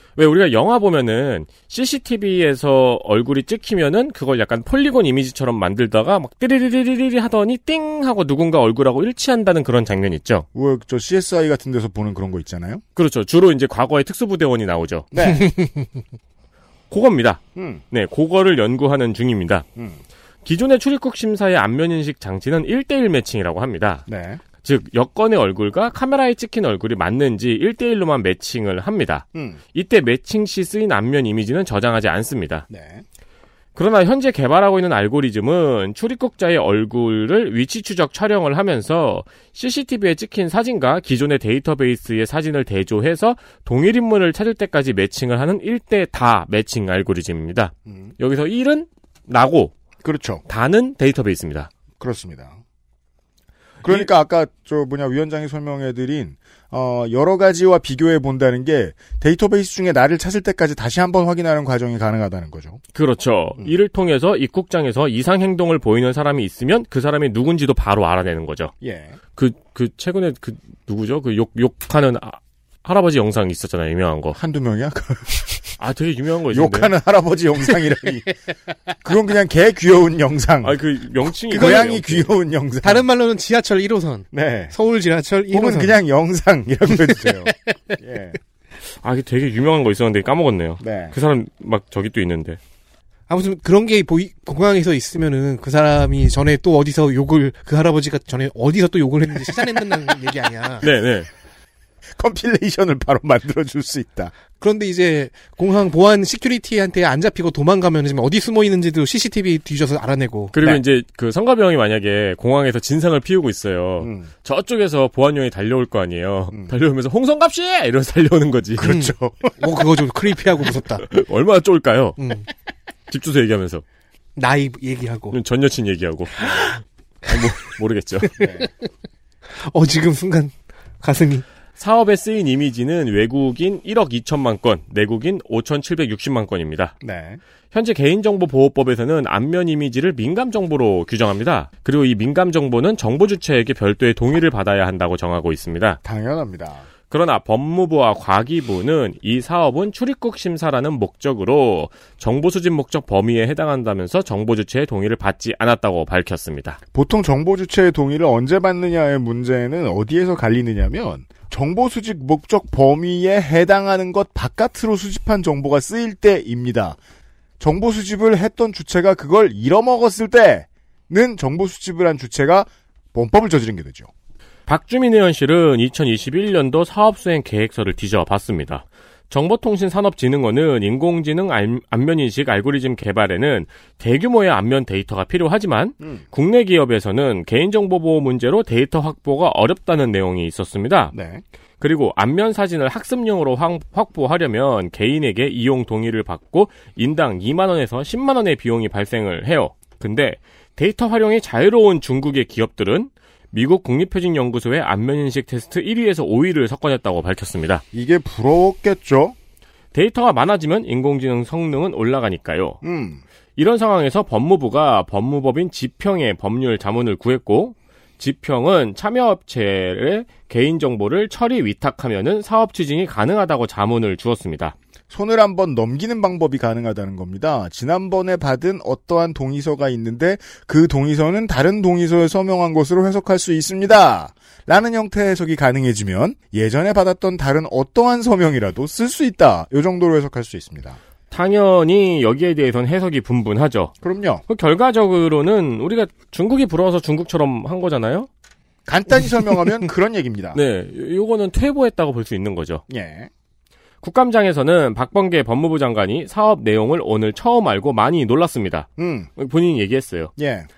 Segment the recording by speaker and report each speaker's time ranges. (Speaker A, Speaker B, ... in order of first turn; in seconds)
Speaker A: 0.2-10.5, 12.9-15.1, 16.9-19.6, 20.4-24.0, 24.6-32.7, 33.8-49.7, 50.5-51.7, 62.9-68.7, 69.3-74.4, 75.8-76.9, 80.6-82.3, 89.0-92.6, 100.8-101.3, 110.5-119.0, 121.1-122.2, 123.1-123.8, 125.3-128.4, 131.8-136.9, 137.7-146.0, 147.1-156.8, 174.7-191.1, 191.8-207.8, 209.9-212.8, 213.6-224.7, 241.3-243.9, 244.5-248.3, 250.5-252.8, 254.0-260.3
Speaker B: 10.5-12.8, 15.1-15.5, 17.6-17.8, 19.8-20.0, 24.1-24.4, 32.7-33.0, 47.9-48.1, 50.0-50.4, 52.0-52.6, 53.8-62.8, 68.8-69.2, 74.3-75.6, 76.5-78.3, 79.0-80.8, 81.5-83.0, 84.3-84.7, 85.5-88.4, 90.8-91.1, 102.1-104.3, 114.0-114.3, 118.8-119.6, 128.4-128.7, 137.0-137.4, 146.0-146.8, 156.9-167.0, 167.6-174.1, 191.1-191.4, 207.9-209.3, 212.8-213.2, 225.1-241.0, 244.0-244.4, 248.8-250.6, 252.9-253.3, 259.0-259.3, 260.4-260.7
Speaker C: 81.5-81.8, 82.8-86.0, 87.1-88.0, 93.3-100.8, 104.6-110.8, 118.8-121.0, 122.2-122.5, 124.3-125.4, 128.4-128.7, 129.6-131.4